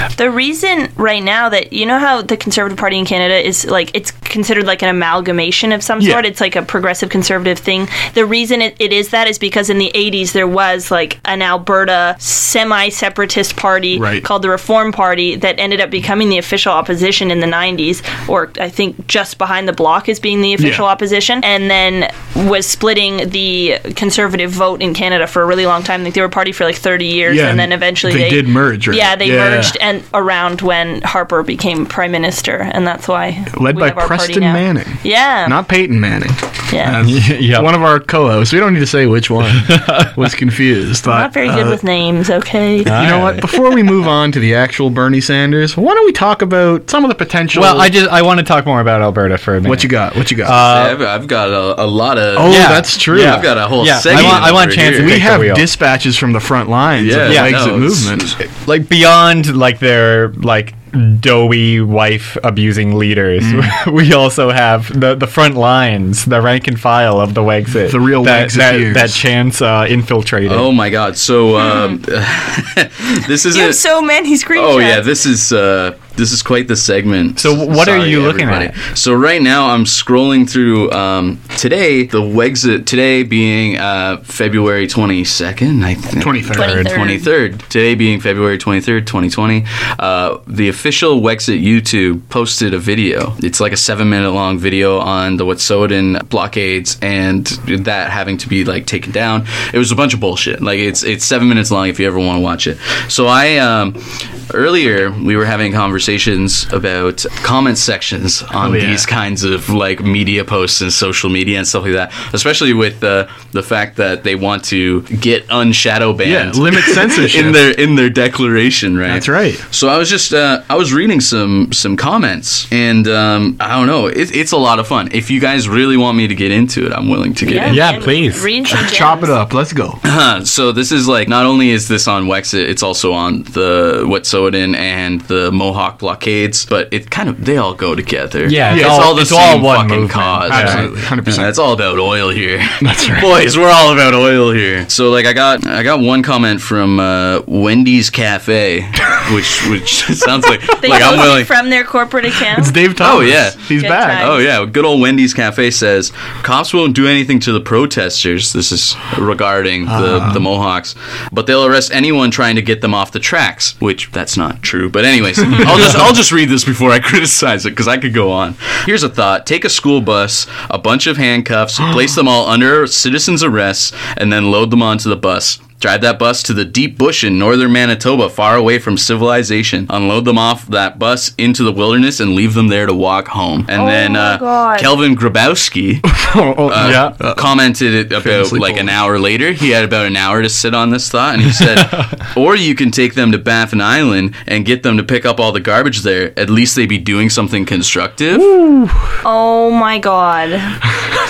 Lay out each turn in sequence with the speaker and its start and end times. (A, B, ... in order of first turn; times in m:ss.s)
0:00.2-0:35.6 A
0:06.0-0:06.2 B
0:13.9-0:14.2 B
0:20.6-0:20.9 B
0:27.3-0:29.8 B
0:33.5-0:41.8 B
0:36.7-0:37.0 A
0:37.0-0:37.7 C
0:39.6-0:40.2 C
0:41.0-0:43.1 A
0:42.8-0:43.5 C
0:42.9-0:47.9 B
0:47.5-0:51.0 C
0:49.6-0:50.6 B
0:50.6-0:55.2 D
0:52.3-0:53.5 B
0:52.4-0:55.7 C
0:54.1-0:58.3 B
0:57.0-0:58.3 D
0:57.2-0:57.6 C
0:58.4-1:10.7 C
1:03.4-1:03.8 B
1:07.8-1:09.2 B
1:10.4-1:13.8 D
1:11.6-1:12.0 A
1:13.5-1:15.0 A
1:14.5-2:08.0 D
1:17.4-1:18.8 C
1:26.2-1:26.8 B
1:26.5-1:27.2 A
1:26.6-1:26.9 C
1:48.6-1:49.1 B
1:56.2-1:57.7 B
1:59.1-1:59.6 B
2:07.4-2:09.3 A
2:07.6-2:08.5 C
2:08.7-2:10.0 B
2:10.0-2:31.5 D
2:18.4-2:20.8 C
2:18.6-2:19.2 B
2:20.5-2:21.5 B
2:22.8-2:23.3 B
2:30.8-2:32.9 A
2:32.5-2:34.3 B
2:33.0-3:18.5 D
2:33.7-2:34.4 A
2:39.9-2:40.4 B
3:03.8-3:04.9 A
3:06.0-3:07.5 B
3:06.8-3:07.2 C
3:08.2-3:08.9 B
3:18.5-3:19.0 C
3:19.2-3:20.9 A